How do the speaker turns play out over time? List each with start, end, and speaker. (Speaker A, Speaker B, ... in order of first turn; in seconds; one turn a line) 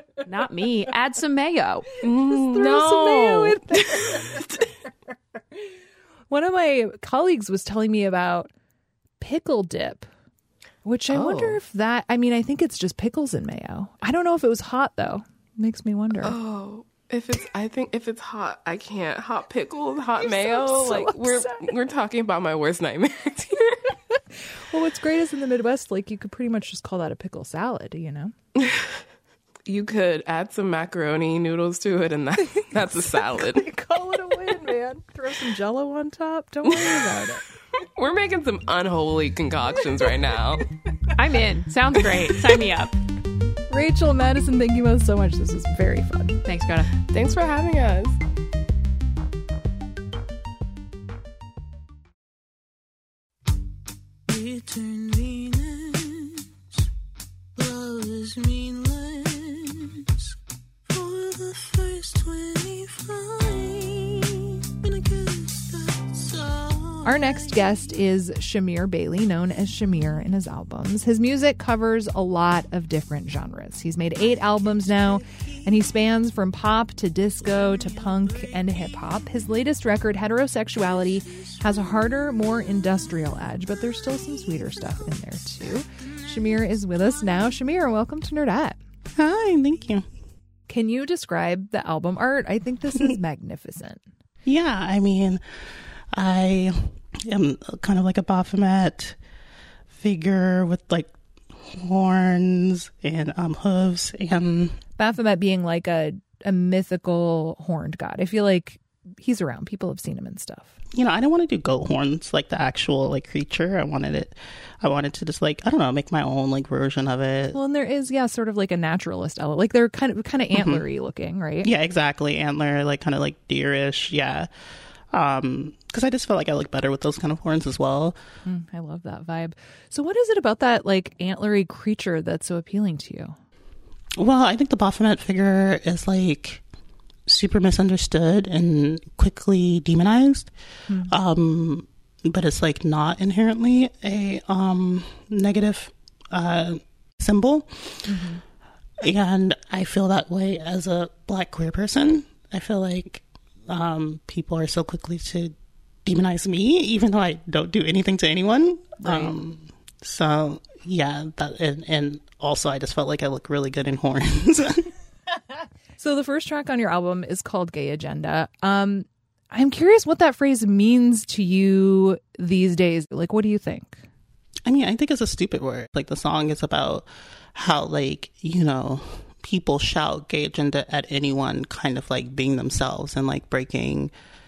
Speaker A: 0.2-1.9
Speaker B: 2.0-4.6
Speaker C: 2.3-4.4
Speaker C: 6.3-8.5
Speaker C: 9.2-10.1
Speaker C: 10.8-16.4
Speaker B: 11.1-11.6
Speaker B: 16.2-23.8
Speaker C: 20.2-21.7
Speaker C: 24.7-28.3
Speaker B: 28.6-29.0
Speaker B: 29.7-33.7
Speaker C: 33.3-37.4
Speaker B: 36.7-37.1
Speaker B: 38.0-40.7
Speaker A: 41.2-42.9
Speaker B: 42.0-42.6
Speaker C: 43.7-46.4
Speaker A: 46.5-46.9
Speaker B: 47.1-48.2
Speaker D: 54.3-56.4
Speaker D: 57.6-60.3
Speaker D: 60.9-67.6
Speaker C: 67.0-88.8
Speaker E: 89.2-90.1
Speaker C: 90.7-94.0
Speaker E: 94.5-95.4
Speaker E: 96.1-99.2
Speaker E: 99.9-104.8
Speaker C: 105.0-110.8
Speaker E: 110.9-117.6
Speaker C: 117.5-121.7
Speaker E: 120.5-120.8
Speaker E: 121.6-124.5
Speaker E: 125.1-128.2
Speaker C: 128.4-133.4
Speaker E: 134.2-136.6
Speaker E: 137.3-140.5
Speaker C: 140.9-141.1
Speaker E: 141.1-148.2
Speaker C: 148.1-148.4
Speaker E: 149.0-164.9
Speaker C: 159.0-159.3
Speaker C: 166.0-174.0
Speaker E: 174.7-184.1